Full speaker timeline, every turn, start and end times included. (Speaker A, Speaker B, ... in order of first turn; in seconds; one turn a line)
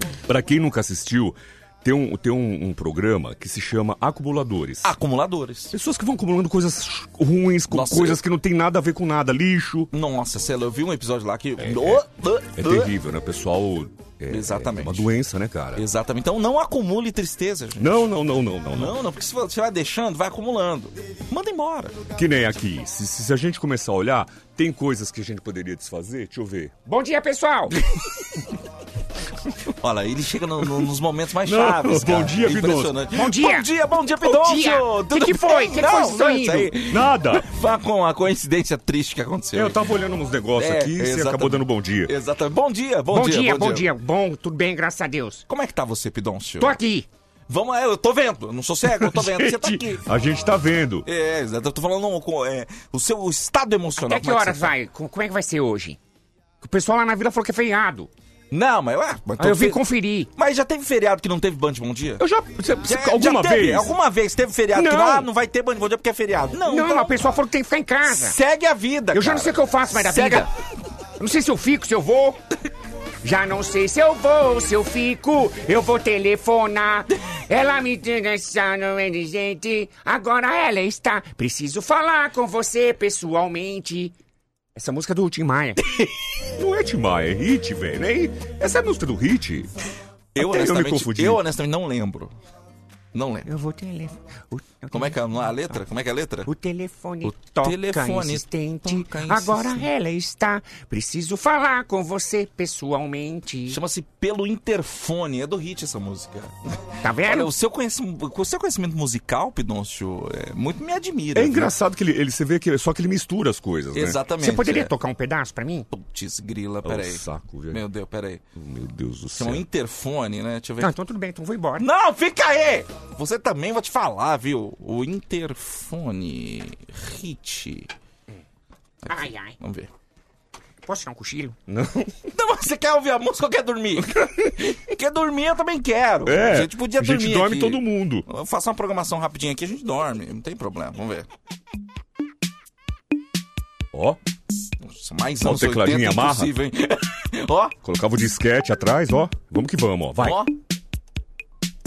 Speaker A: 0.3-4.9
Speaker B: 4.8-5.7
Speaker A: 5.7-9.9
Speaker B: 7.7-8.2
Speaker B: 9.9-12.9
Speaker A: 11.6-12.0
Speaker A: 12.6-15.8
Speaker B: 14.3-15.1
Speaker B: 15.8-18.1
Speaker A: 17.8-19.0
Speaker B: 18.7-22.0
Speaker A: 22.1-26.7
Speaker C: 26.9-27.8
Speaker B: 29.8-39.8
Speaker A: 31.4-33.0
Speaker C: 33.1-33.7
Speaker C: 34.2-36.7
Speaker A: 36.8-37.5
Speaker A: 39.5-42.1
Speaker B: 40.6-43.9
Speaker C: 43.1-45.4
Speaker B: 45.5-46.8
Speaker C: 46.6-47.1
Speaker B: 47.5-50.0
Speaker A: 49.1-51.1
Speaker B: 51.0-54.7
Speaker C: 54.0-56.0
Speaker C: 56.6-58.1
Speaker B: 58.5-59.8
Speaker C: 59.4-60.3
Speaker B: 60.4-62.2
Speaker A: 62.2-63.9
Speaker B: 62.8-67.1
Speaker C: 64.8-65.3
Speaker C: 66.7-68.3
Speaker B: 68.0-70.5
Speaker C: 69.1-70.5
Speaker C: 71.2-72.4
Speaker C: 73.2-84.1
Speaker C: 84.7-85.8
Speaker A: 86.5-89.7
Speaker A: 90.3-91.4
Speaker B: 90.3-92.3
Speaker B: 93.1-93.5
Speaker C: 93.4-95.2
Speaker B: 94.9-96.5
Speaker C: 96.5-103.8
Speaker B: 97.2-99.8
Speaker B: 103.7-106.5
Speaker C: 107.0-107.5
Speaker B: 107.2-111.7
Speaker A: 111.3-114.2
Speaker B: 113.9-114.9
Speaker C: 114.4-115.9
Speaker B: 115.9-118.4
Speaker A: 116.8-117.8
Speaker A: 118.5-119.6
Speaker B: 119.3-120.9
Speaker C: 120.8-121.8
Speaker B: 121.8-127.9
Speaker B: 129.1-129.9
Speaker C: 129.1-129.5
Speaker C: 130.8-131.6
Speaker A: 131.7-132.0
Speaker B: 132.3-141.3
Speaker A: 136.2-138.2
Speaker A: 143.9-144.2
Speaker B: 144.8-147.8
Speaker A: 145.4-146.5
Speaker A: 147.8-150.4
Speaker B: 150.2-150.5